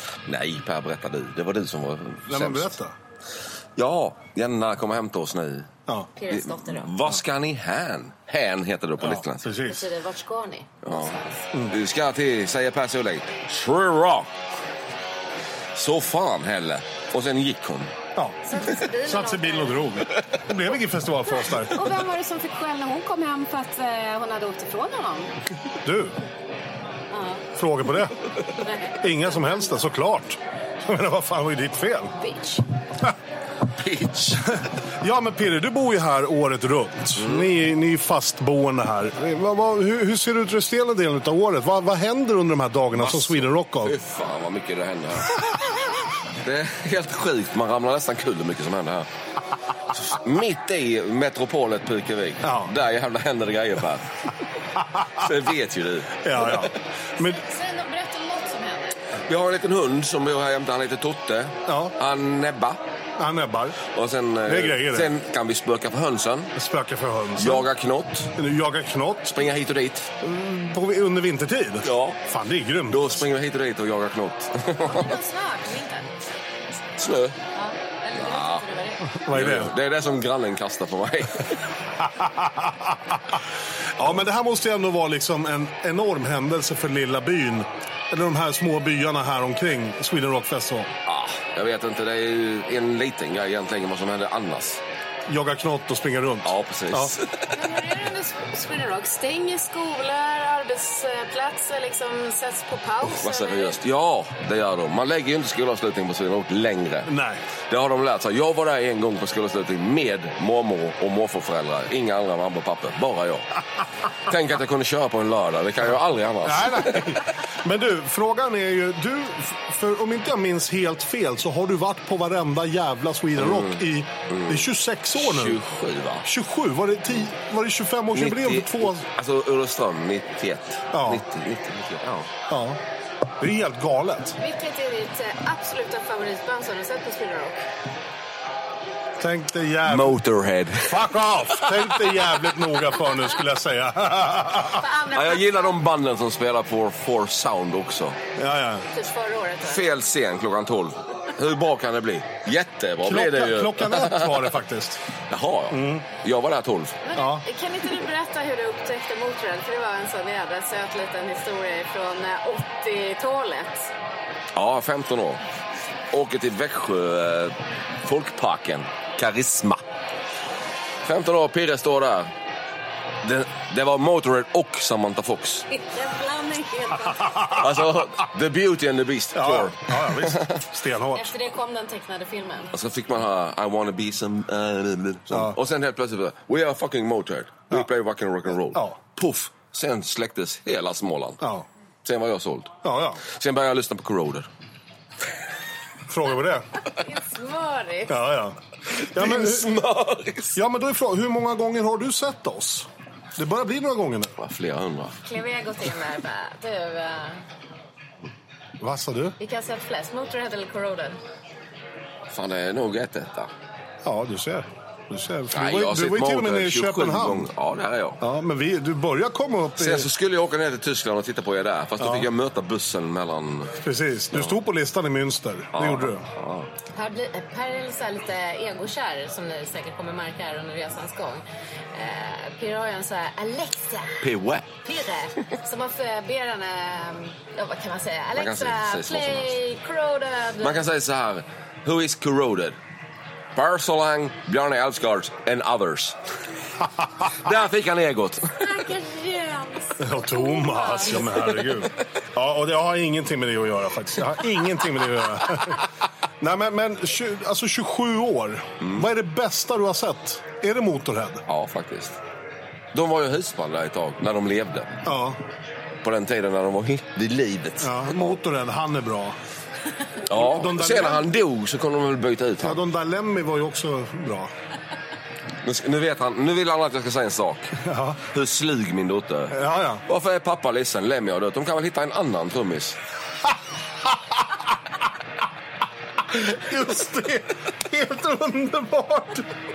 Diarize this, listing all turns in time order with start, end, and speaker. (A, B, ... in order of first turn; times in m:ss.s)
0:00.2-0:02.7 A
0:02.3-0:02.9 B
0:03.8-0:05.7 A
0:06.2-0:06.9 C
0:06.3-0:09.5 A
0:09.0-0:09.8 B
0:09.6-0:11.4 C
0:10.8-0:11.1 A
0:11.7-0:14.3 A
0:15.7-0:17.9 A
0:18.2-0:21.8 B
0:18.5-0:19.9 C
0:21.5-0:25.3 C
0:25.8-0:26.1 B
0:27.1-0:27.4 C
0:27.6-0:28.1 B
0:28.6-0:29.6 C
0:29.0-0:32.1 B
0:32.2-0:32.6 C
0:33.8-0:34.4 A
0:35.0-0:43.9 B
0:37.2-0:37.5 A
0:43.0-0:45.4 A
0:46.4-0:49.1 A
0:50.0-0:54.0 A
0:52.4-0:52.7 B
0:55.2-0:56.6 A
0:56.2-0:57.4 B
0:57.2-0:59.0 C
0:59.3-1:02.8 A
1:01.7-1:01.9 B
1:03.2-1:03.8 B
1:03.9-1:06.5 A
1:04.4-1:05.1 B
1:06.6-1:07.6 B
1:07.4-1:08.3 A
1:08.4-1:09.5 B
1:09.3-1:10.5 A
1:10.5-1:13.2 B
1:11.8-1:12.2 A
1:12.9-1:15.2 A
1:14.9-1:16.1 C
1:17.0-1:17.4 A
1:17.5-1:19.0 C
1:18.2-1:18.6 A
1:19.3-1:19.7 B
1:19.3-1:21.5 A
1:22.2-1:22.7 B
1:24.0-1:30.9 B
1:31.0-1:34.8 A
1:35.3-1:37.1 B
1:36.4-1:37.4 A
1:37.5-1:43.7 C
1:43.0-1:47.1 A
1:47.0-1:47.4 B
1:47.7-1:53.5 A
1:54.3-1:57.0 A
1:56.4-2:05.6 B
2:03.4-2:04.6 A
2:05.2-2:06.2 A
2:06.2-2:09.0 B
2:08.1-2:12.3 A
2:10.9-2:11.2 B
2:12.5-2:12.8 B
2:13.4-2:14.4 B
2:14.4-2:17.5 C
2:19.2-2:20.2 B
2:19.8-2:20.9 A
2:20.8-2:24.8 B
2:24.7-2:25.5 C
2:25.1-2:28.2 A
2:28.4-2:28.8 B
2:28.9-2:29.8 C
2:29.6-2:34.3 A
2:33.0-2:35.0 B
2:35.3-2:37.0 A
2:35.7-2:36.0 B
2:37.0-2:43.9 C
2:37.2-2:37.4 B
2:44.5-2:45.4 A
2:46.1-2:49.8 A
2:51.0-2:52.3 A
2:53.2-2:55.6 A
2:55.7-2:57.5 C
2:57.5-3:00.5 A
2:59.3-3:01.3 B
3:01.1-3:02.7 C
3:02.7-3:11.4 A
3:05.3-3:05.6 B
3:08.7-3:09.0 B
3:11.4-3:11.6 B
3:12.0-3:12.7 A
3:12.8-3:13.2 B
3:13.3-3:14.5 A
3:16.1-3:16.6 B
3:17.0-3:18.1 C
3:18.1-3:18.6 B
3:19.0-3:20.5 A
3:19.1-3:19.7 B
3:20.5-3:24.3 B
3:24.4-3:25.2 A
3:25.2-3:27.4 C
3:28.8-3:29.3 B
3:29.4-3:31.2 C
3:32.3-3:33.5 A
3:34.0-3:37.5 B
3:35.5-3:38.2 A
3:38.2-3:40.1 B
3:39.8-3:43.7 A
3:42.0-3:42.3 B
3:43.8-3:46.2 B
3:45.7-3:46.7 A
3:46.9-3:51.4 C
3:51.9-3:54.2 C
3:54.2-3:54.7 A
3:54.8-4:00.8 C
3:58.3-3:59.6 A
4:00.6-4:02.8 A
4:03.6-4:06.2 A
4:07.4-4:08.6 A
4:08.6-4:09.7 C
4:10.0-4:15.8 B
4:10.3-4:11.2 C
4:16.4-4:21.4 B
4:21.5-4:22.1 A
4:22.9-4:24.9 A
4:25.0-4:25.4 B
4:26.0-4:28.2 A
4:27.8-4:29.4 B
4:30.3-4:32.8 A
4:30.3-4:31.3 B
4:32.6-4:34.5 B
4:35.6-4:37.7 A
4:37.8-4:38.2 B
4:38.3-4:39.5 A
4:39.5-4:40.0 B
4:40.0-4:43.0 A
4:46.3-4:49.5 B